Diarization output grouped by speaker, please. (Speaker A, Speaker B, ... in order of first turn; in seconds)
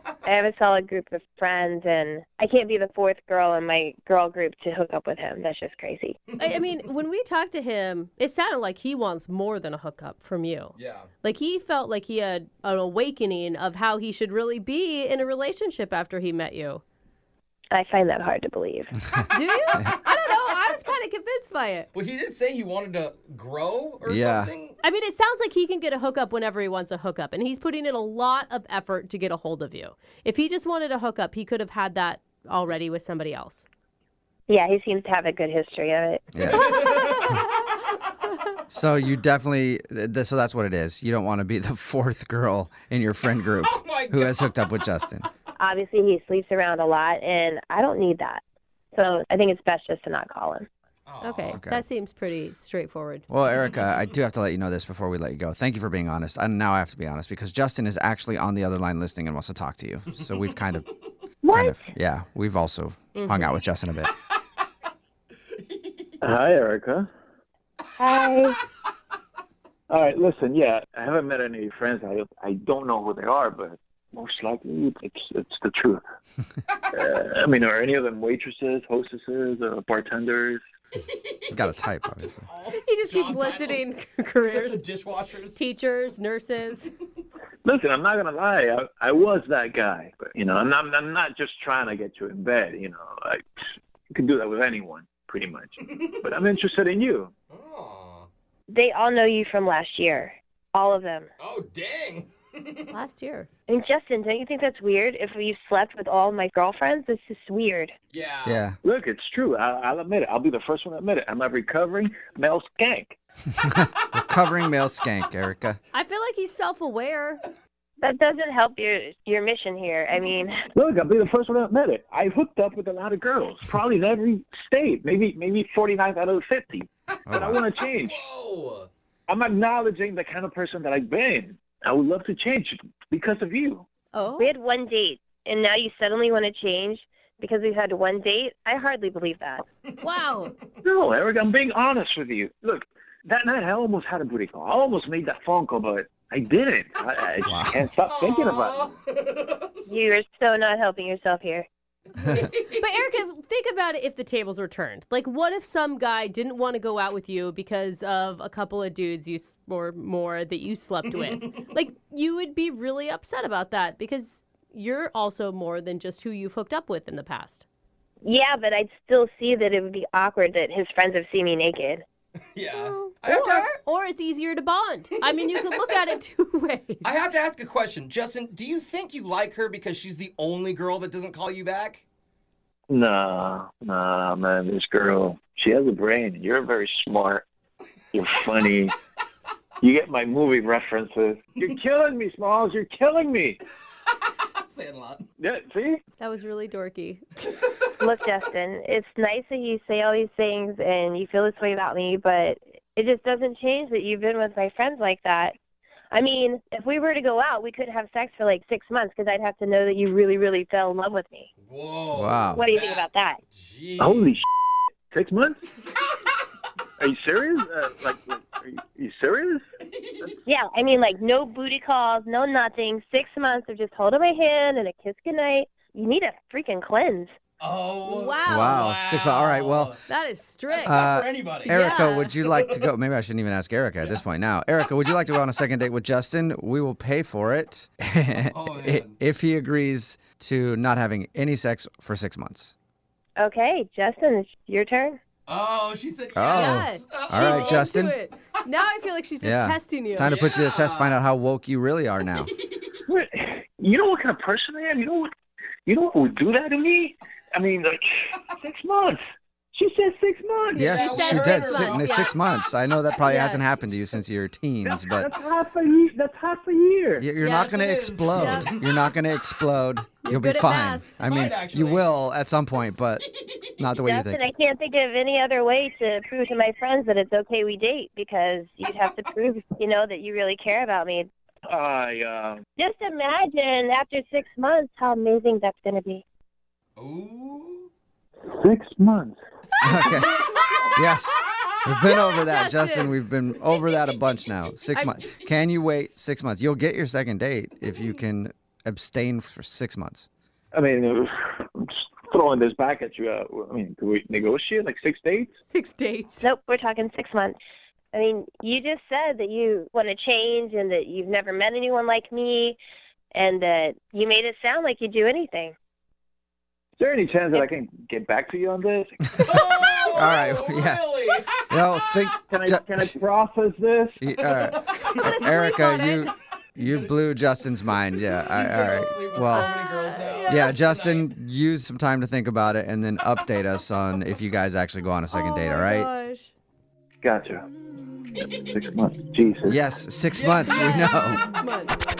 Speaker A: 0.2-6.2, 17.7-18.9, 34.5-36.6, 45.6-48.4, 48.9-50.7, 61.4-61.8, 68.0-68.6, 98.7-101.3, 103.7-107.9, 118.0-120.7, 134.4-139.6, 149.8-151.7, 168.2-172.0, 198.0-205.5, 206.1-211.5, 212.5-213.4, 220.4-227.3, 243.4-245.2, 274.0-281.3, 282.8-286.2, 306.4-307.6, 308.1-312.8, 313.3-315.7
Speaker B: 6.4-16.8, 19.3-21.9, 24.8-33.6, 36.5-37.4, 51.2-53.2, 63.1-63.5, 82.7-84.8, 85.5-86.9, 102.9-103.5, 115.9-117.4, 134.1-134.5, 140.0-140.5, 152.2-167.6, 172.8-177.1, 196.2-197.2, 228.1-228.9, 230.1-231.1, 231.7-232.3, 246.5-250.3, 260.9-262.3, 263.2-263.6, 267.4-268.7, 270.2-271.0, 289.8-290.8, 292.0-293.1, 305.6-306.4, 325.2-326.3, 329.5-330.8, 335.3-336.5, 340.6-341.9
Speaker C: 10.8-11.1, 21.9-24.8, 36.5-37.4, 43.7-44.4, 51.1-51.6, 65.6-66.1, 82.4-83.8, 84.4-85.6, 95.8-96.3, 97.5-98.3, 101.4-102.9, 108.1-108.6, 128.0-128.9, 148.0-149.7, 152.3-152.7, 172.5-173.7, 177.0-182.0, 194.6-195.2, 211.6-214.3, 220.0-220.3, 227.6-230.0, 230.7-231.8, 232.3-232.9, 238.5-239.2, 245.5-247.8, 250.2-251.2, 260.9-262.3, 267.5-268.9, 271.2-272.1, 287.0-287.9, 290.1-290.9, 319.4-322.2, 324.4-325.5, 326.8-327.1, 327.9-331.3, 340.3-340.9
Speaker D: 24.0-24.5, 36.3-36.7, 38.7-45.3, 51.5-51.8, 53.3-60.9, 61.5-64.1, 81.5-82.5, 108.4-108.8, 113.6-115.8, 127.3-127.6, 147.4-147.8, 212.1-212.7, 228.5-229.9, 230.8-242.7, 246.3-248.1, 249.4-252.5, 260.7-265.3, 267.2-273.2, 273.8-274.4, 289.8-300.3, 319.4-321.1, 321.7-322.8, 324.2-329.7, 330.4-336.1, 339.7-341.4
Speaker E: 66.2-67.1, 69.9-76.0, 76.9-80.6, 87.6-93.4, 94.1-97.3, 108.8-113.2, 120.7-128.2, 129.3-133.8, 140.8-148.9, 182.9-187.4, 188.1-188.9, 189.8-193.6, 195.4-196.0, 214.0-214.4, 215.1-215.6, 217.0-219.6, 253.1-255.3, 255.8-259.2, 259.7-261.0, 264.8-267.2, 281.7-282.6, 288.5-289.4, 300.7-305.5, 317.0-319.4, 322.5-324.2, 337.2-337.6, 338.6-339.8